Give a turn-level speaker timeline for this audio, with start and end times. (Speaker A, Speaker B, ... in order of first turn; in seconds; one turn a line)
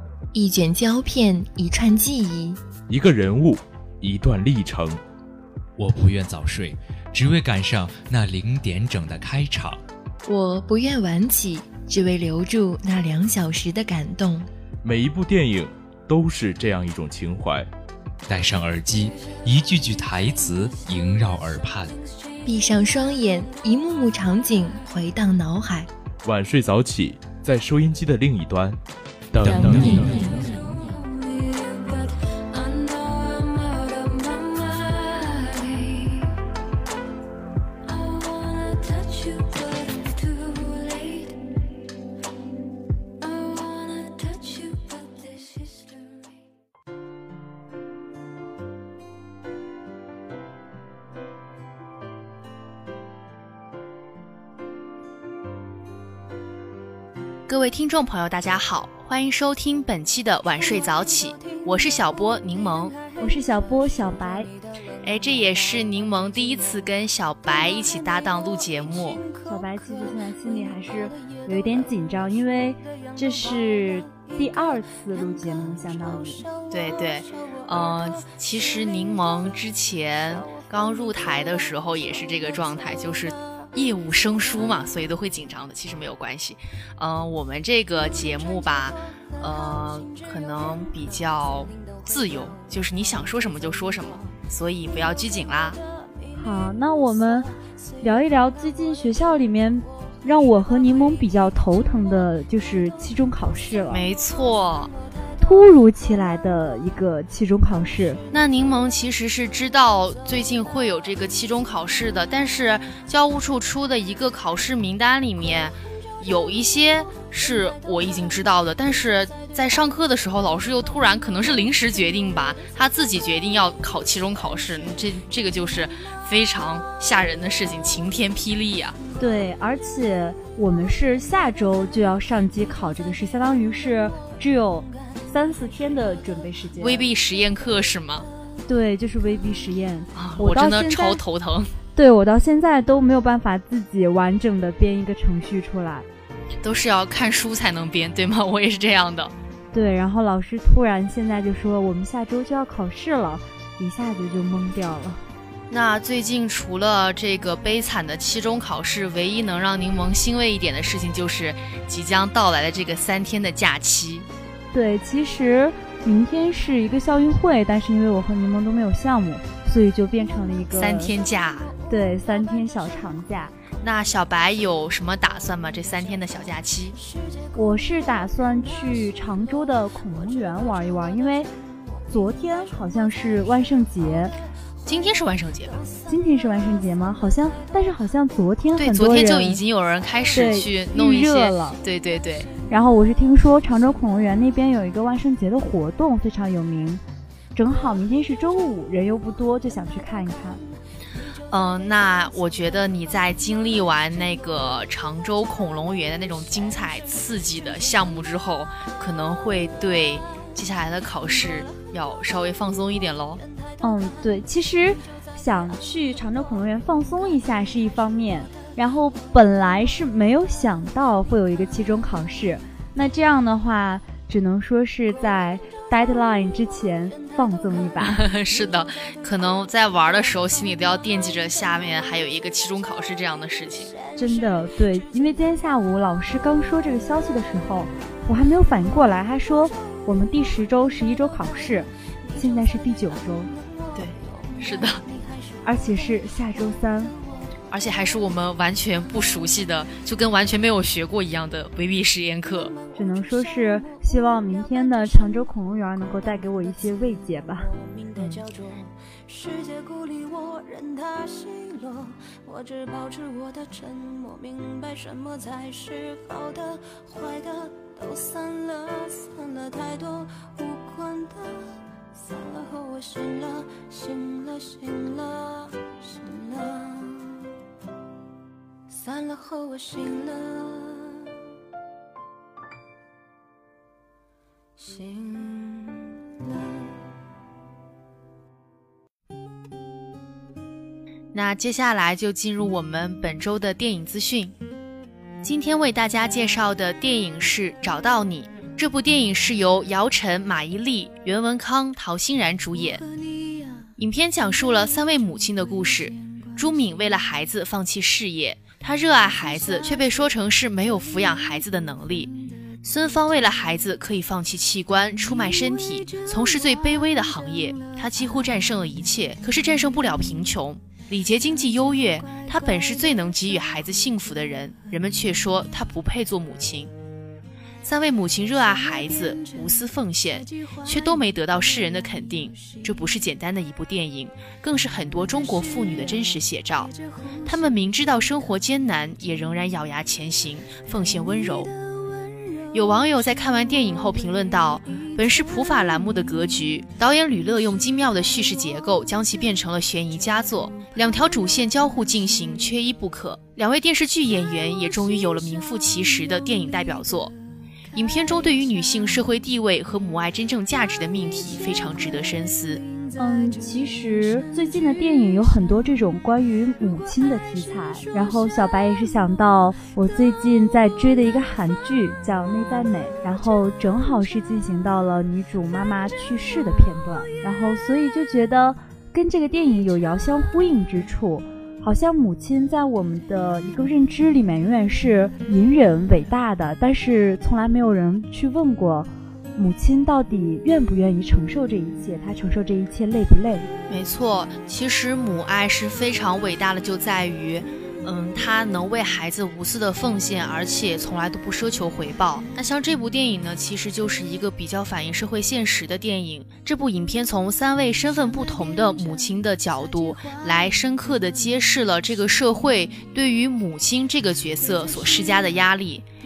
Speaker A: 0.3-2.6
Speaker B: 2.9-5.0
Speaker C: 5.8-9.8
Speaker A: 10.3-14.5
Speaker B: 14.8-17.7
Speaker C: 18.3-22.0
Speaker A: 22.4-25.9
Speaker B: 26.2-28.8
Speaker B: 29.3-30.6
Speaker C: 29.4-30.6
Speaker A: 29.4-30.6
Speaker D: 57.5-63.0
Speaker E: 63.2-64.5
Speaker D: 65.0-69.2
Speaker E: 69.5-76.5
Speaker D: 76.7-95.8
Speaker E: 96.3-97.5
Speaker E: 98.0-104.0
Speaker D: 103.9-104.9
Speaker E: 105.4-108.2
Speaker D: 108.3-129.0
Speaker E: 129.2-137.0
Speaker D: 136.8-138.3
Speaker E: 138.7-141.2
Speaker D: 140.2-141.7
Speaker E: 141.9-146.1
Speaker D: 146.6-149.3
Speaker E: 149.7-155.2
Speaker D: 155.7-164.3
Speaker E: 164.7-171.1
Speaker D: 170.7-171.7
Speaker E: 171.9-173.6
Speaker D: 173.8-177.0
Speaker E: 177.5-181.5
Speaker E: 182.1-184.3
Speaker D: 184.8-185.9
Speaker E: 186.1-189.6
Speaker D: 188.8-192.5
Speaker E: 190.3-191.8
Speaker E: 192.7-197.0
Speaker E: 197.6-200.6
Speaker D: 201.5-213.4
Speaker E: 213.8-228.2
Speaker D: 228.0-233.9
Speaker E: 234.2-243.6
Speaker D: 243.9-245.1
Speaker E: 245.6-247.2
Speaker D: 247.7-252.8
Speaker E: 252.9-257.8
Speaker D: 258.1-258.5
Speaker D: 291.3-294.6
Speaker D: 295.4-303.1
Speaker D: 304.0-326.9
Speaker D: 327.8-341.7
Speaker D: 342.7-357.3
Speaker D: 357.9-362.8
Speaker E: 363.2-393.7
Speaker D: 393.9-416.1